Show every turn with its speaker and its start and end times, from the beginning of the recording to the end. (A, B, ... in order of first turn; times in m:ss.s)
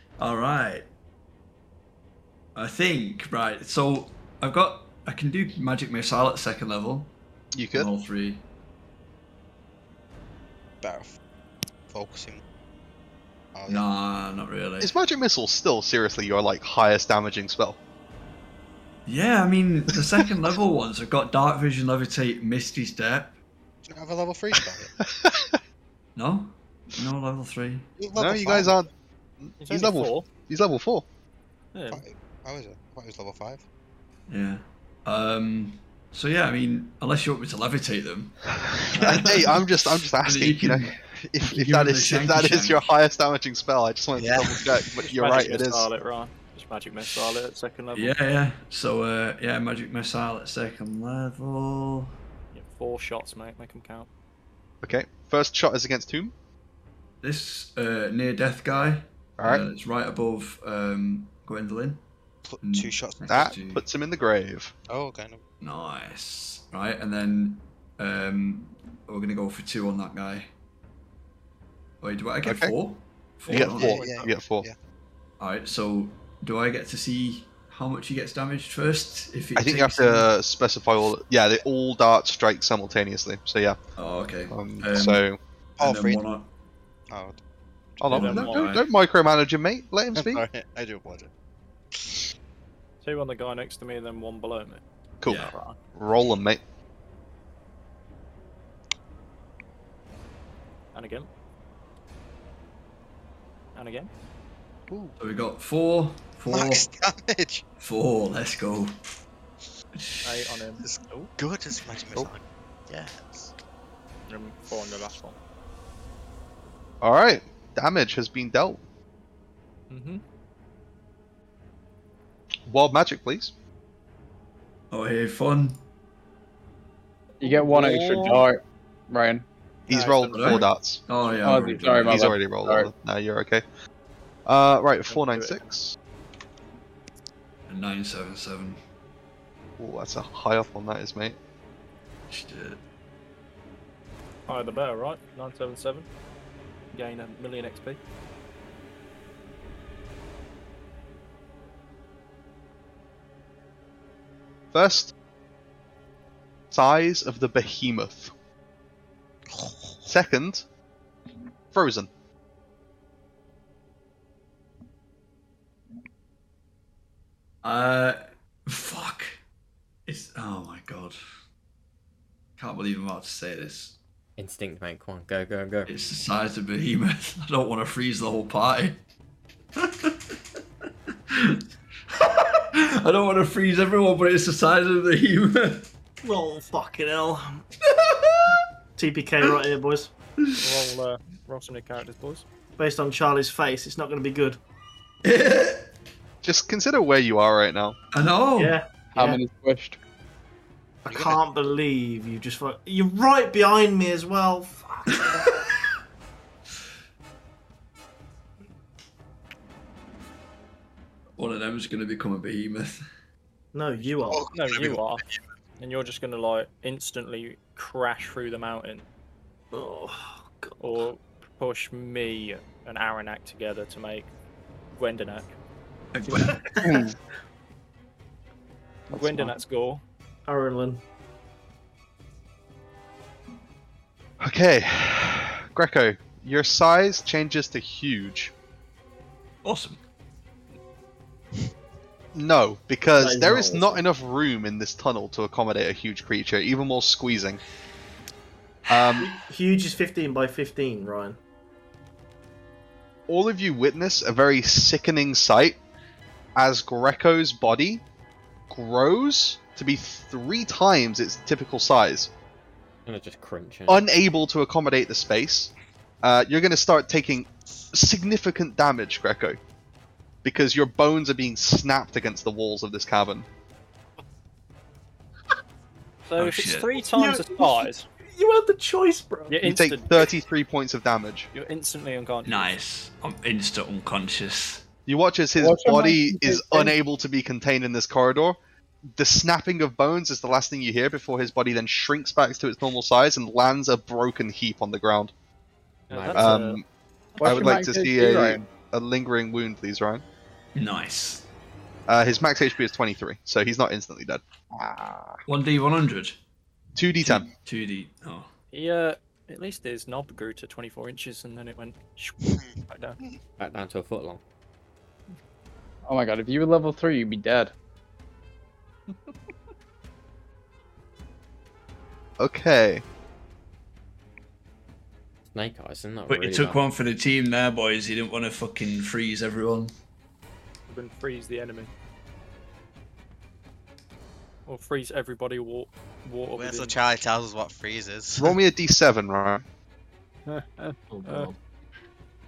0:00.2-0:00.9 A
0:02.5-0:07.1 A
0:07.5-0:07.9 B
0:07.7-0:08.4 A
0:10.8-0:11.1 C
0:11.9-0:12.4 C
0:13.5-0:13.8 C
0:13.7-0:14.9 A
0:14.8-0:17.8 B
0:19.0-0:23.4 A
0:23.8-0:24.9 C
0:24.6-0:25.5 B
0:26.2-0:27.9 A
0:28.0-0:28.8 C
0:28.2-0:28.9 B
0:29.4-0:31.0 B
0:29.6-0:30.3 D
0:31.7-0:32.0 D
0:31.9-0:33.6 C
0:34.3-0:40.9 A
0:38.9-0:45.9 B
0:41.4-0:42.8 A
0:44.2-0:44.6 C
0:45.0-0:48.1 D
0:47.9-0:52.1 A
0:52.5-0:54.1 D
0:54.8-0:56.3 B
0:57.2-1:02.0 A
0:59.4-0:59.7 B
1:02.4-1:03.5 C
1:02.6-1:03.8 A
1:03.3-1:04.7 B
1:04.9-1:05.4 C
1:05.6-1:10.5 A
1:12.0-1:14.0 A
1:12.4-1:12.7 B
1:13.5-1:14.7 B
1:13.5-1:14.7 C
1:15.4-1:20.3 A
1:19.6-1:23.8 B
1:24.0-1:25.2 A
1:24.5-1:25.4 B
1:25.8-1:26.2 C
1:25.8-1:26.5 A
1:27.1-1:27.4 C
1:28.0-1:30.4 B
1:28.0-1:28.8 A
1:28.1-1:28.8 D
1:30.1-1:31.3 C
1:32.0-1:32.2 C
1:33.0-1:34.8 D
1:35.2-1:36.6 B
1:35.3-1:35.5 A
1:35.4-1:35.8 D
1:40.9-1:41.3 D
1:43.7-1:44.1 D
1:45.2-1:46.8 A
1:46.5-1:47.6 C
1:47.8-1:48.9 A
1:49.9-1:50.4 A
1:50.2-1:51.3 D
1:50.8-1:53.5 C
1:54.3-1:55.4 D
1:57.0-1:58.8 B
1:59.9-2:00.2 D
2:02.7-2:03.5 B
2:04.9-2:05.8 A
2:07.4-2:09.4 E
2:07.4-2:08.4 B
2:09.9-2:11.0 B
2:09.9-2:10.7 D
2:10.3-2:12.3 A
2:11.4-2:12.9 E
2:12.0-2:13.6 B
2:14.4-2:16.0 B
2:15.1-2:15.6 D
2:17.7-2:18.8 A
2:19.8-2:21.4 B
2:22.3-2:22.8 A
2:24.5-2:26.1 D
2:26.9-2:28.0 D
2:34.7-2:35.1 B
2:36.7-2:38.3 B
2:39.5-2:40.1 C
2:40.1-2:40.6 B
2:41.7-2:42.1 B
2:47.6-2:49.4 A
2:50.0-2:51.2 A
2:52.6-2:54.0 A
2:54.4-2:55.9 F
2:55.9-2:59.0 A
2:59.8-3:00.4 A
3:01.3-3:05.9 A
3:06.2-3:07.6 G
3:07.9-3:08.6 A
3:09.0-3:10.1 G
3:10.4-3:10.7 A
3:10.6-3:12.4 D
3:12.8-3:14.6 G
3:15.2-3:15.9 A
3:16.4-3:18.0 B
3:18.1-3:18.8 A
3:18.6-3:19.4 G
3:19.1-3:20.0 E
3:21.0-3:25.6 G
3:21.1-3:21.4 C
3:25.2-3:25.6 A
3:31.4-3:33.0 A
3:33.7-3:34.5 G
3:34.1-3:35.4 C
3:34.5-3:35.2 D
3:35.8-3:39.0 D
3:39.7-3:41.0 G
3:40.8-3:44.3 D
3:44.9-3:45.5 D
3:46.1-3:46.7 A
3:46.3-3:47.1 G
3:46.8-3:47.1 E
3:49.1-3:49.5 E
3:49.1-3:50.0 D
3:50.5-3:51.0 G
3:54.4-3:58.5 B
3:59.6-4:00.0 D
4:02.3-4:07.6 B
4:03.2-4:04.0 G
4:08.9-4:09.3 B
4:09.2-4:11.4 G
4:13.3-4:15.8 B
4:16.6-4:18.0 B
4:18.7-4:22.3 B
4:23.0-4:24.1 F
4:23.9-4:29.6 B
4:30.4-4:33.5 B
4:36.3-4:38.0 D
4:36.4-4:36.9 A
4:37.1-4:39.6 G
4:39.5-4:40.2 D
4:39.6-4:41.5 B
4:41.5-4:42.7 D
4:42.4-4:44.8 A
4:45.1-4:48.6 B
4:45.6-4:46.9 E
4:49.2-4:55.3 B
4:56.1-4:56.8 D
4:56.1-4:56.6 F
4:56.3-4:56.8 B
4:57.4-4:58.6 E
4:57.4-5:00.2 B
4:57.5-4:57.7 D
5:00.7-5:01.5 A
5:02.1-5:04.4 B
5:04.8-5:05.3 E
5:05.5-5:06.3 A
5:07.0-5:07.5 B
5:07.2-5:08.5 A
5:08.7-5:13.2 D
5:13.6-5:14.4 F
5:16.0-5:17.7 E
5:22.4-5:23.0 B
5:25.5-5:26.8 F
5:26.3-5:29.9 A
5:30.9-5:31.9 D
5:34.7-5:37.0 D
5:36.6-5:38.6 C
5:38.4-5:39.6 B
5:40.5-5:41.5 D
5:41.1-5:41.6 G